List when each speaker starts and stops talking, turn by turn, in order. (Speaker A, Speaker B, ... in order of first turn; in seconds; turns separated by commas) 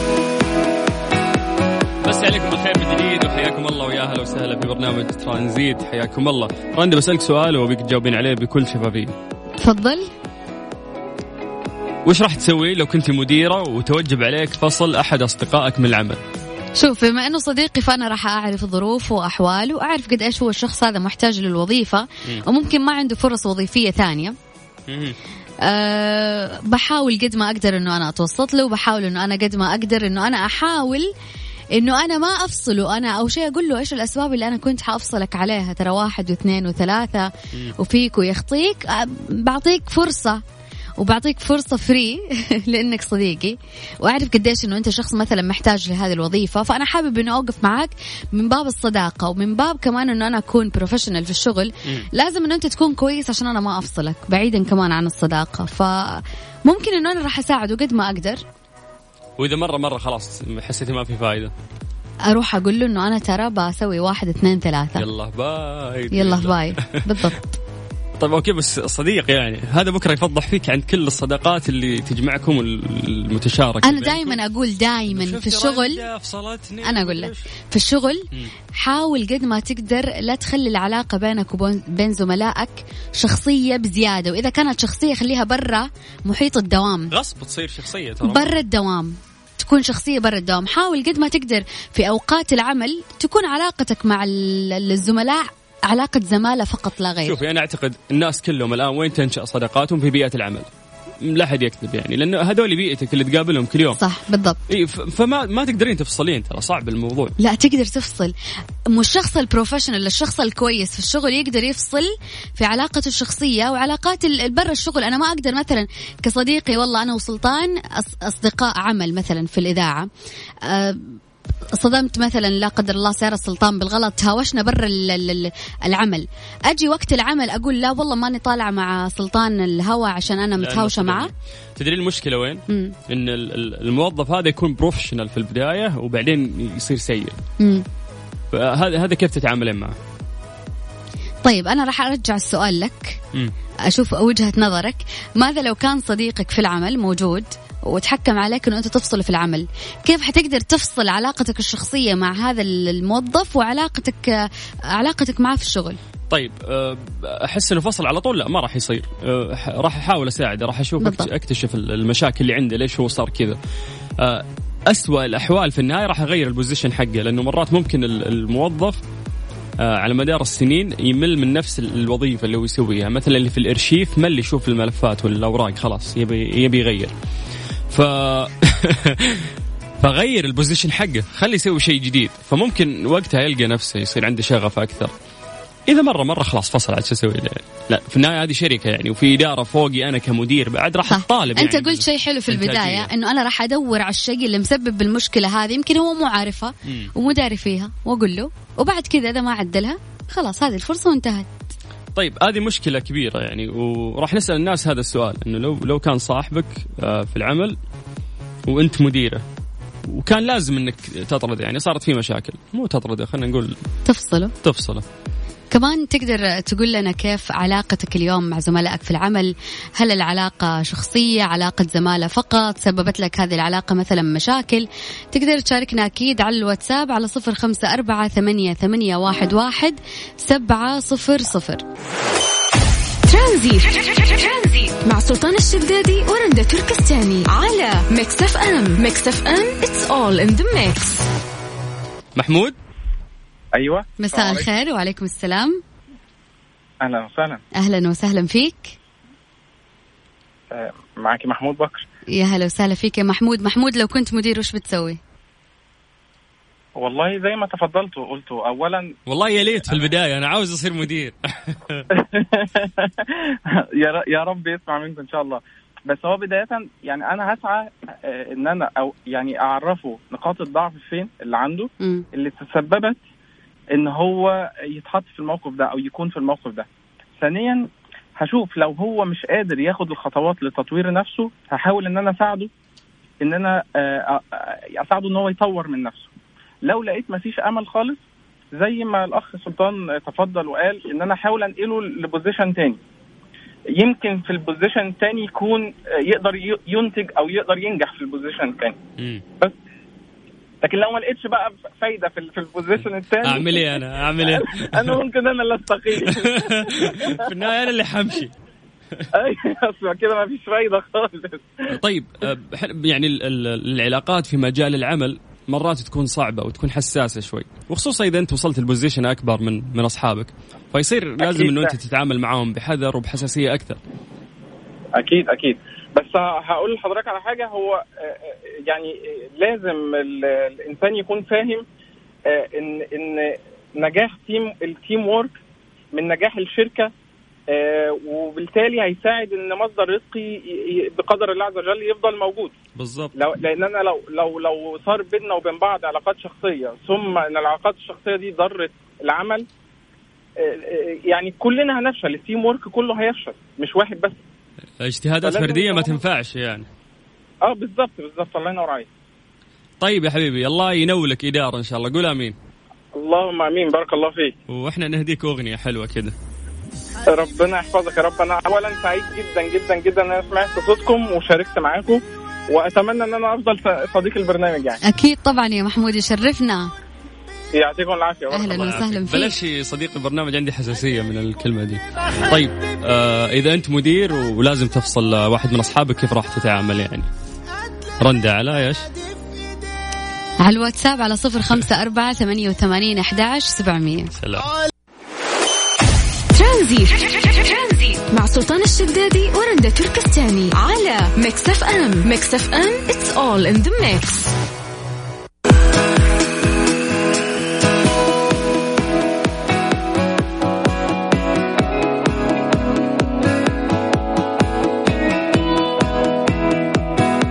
Speaker A: 2.0-9.1, Speaker B: 9.6-10.1, Speaker A: 12.0-16.2, Speaker B: 16.8-24.3, Speaker A: 24.9-25.2, Speaker B: 25.6-31.1, Speaker B: 31.7-40.4, Speaker B: 41.0-58.4, Speaker A: 59.4-61.5, Speaker B: 62.3-65.0, Speaker A: 65.0-67.3, Speaker B: 66.1-67.6, Speaker A: 68.2-74.4, Speaker B: 73.8-76.0, Speaker A: 75.1-77.5, Speaker B: 76.8-87.1, Speaker A: 87.1-88.5, Speaker B: 88.2-97.4, Speaker A: 97.2-100.7, Speaker A: 101.2-104.0, Speaker B: 104.0-104.6, Speaker A: 104.7-107.3, Speaker B: 107.4-108.3, Speaker B: 108.9-120.1, Speaker B: 120.7-121.2, Speaker B: 121.7-131.3, Speaker A: 130.6-137.3, Speaker B: 132.7-132.9, Speaker B: 137.6-137.8, Speaker A: 138.5-139.9, Speaker B: 141.4-143.2, Speaker B: 143.9-156.0, Speaker A: 156.3-163.6, Speaker B: 161.0-161.3, Speaker A: 164.2-169.0, Speaker A: 169.8-177.1, Speaker A: 177.9-185.1, Speaker A: 185.9-193.1, Speaker B: 191.1-201.5, Speaker A: 196.8-197.1, Speaker A: 202.2-207.8, Speaker A: 208.7-209.4, Speaker A: 210.1-213.7, Speaker B: 214.1-214.5, Speaker A: 214.6-215.0, Speaker B: 215.7-231.8, Speaker C: 233.2-241.2, Speaker A: 242.3-242.8, Speaker D: 243.7-244.7, Speaker B: 244.2-245.8, Speaker D: 247.0-247.6, Speaker B: 247.8-248.9, Speaker D: 250.7-252.0, Speaker B: 252.3-255.2, Speaker D: 256.9-260.0, Speaker A: 259.3-262.0, Speaker D: 262.1-273.2, Speaker D: 273.9-276.9, Speaker D: 277.4-282.7, Speaker D: 283.4-286.3, Speaker D: 286.8-288.2, Speaker D: 288.8-293.0, Speaker D: 293.9-299.0, Speaker A: 299.2-299.4, Speaker D: 300.8-307.5, Speaker A: 303.4-305.2, Speaker A: 306.2-308.5, Speaker D: 309.3-311.8, Speaker A: 311.9-324.0, Speaker D: 321.4-321.9, Speaker D: 325.1-331.8, Speaker D: 332.5-335.5, Speaker D: 336.1-337.1, Speaker D: 337.7-342.7, Speaker A: 342.9-343.3, Speaker D: 343.4-349.6, Speaker D: 350.6-354.4, Speaker A: 355.0-356.9, Speaker D: 355.4-356.2, Speaker D: 357.6-359.1, Speaker A: 360.0-362.5, Speaker D: 363.1-364.5, Speaker A: 364.7-366.3, Speaker D: 367.2-375.0, Speaker B: 375.0-376.9, Speaker D: 377.7-379.0, Speaker B: 378.5-379.6, Speaker A: 378.7-387.3, Speaker A: 388.2-389.1, Speaker B: 390.6-394.3, Speaker A: 394.3-394.7, Speaker C: 396.5-404.5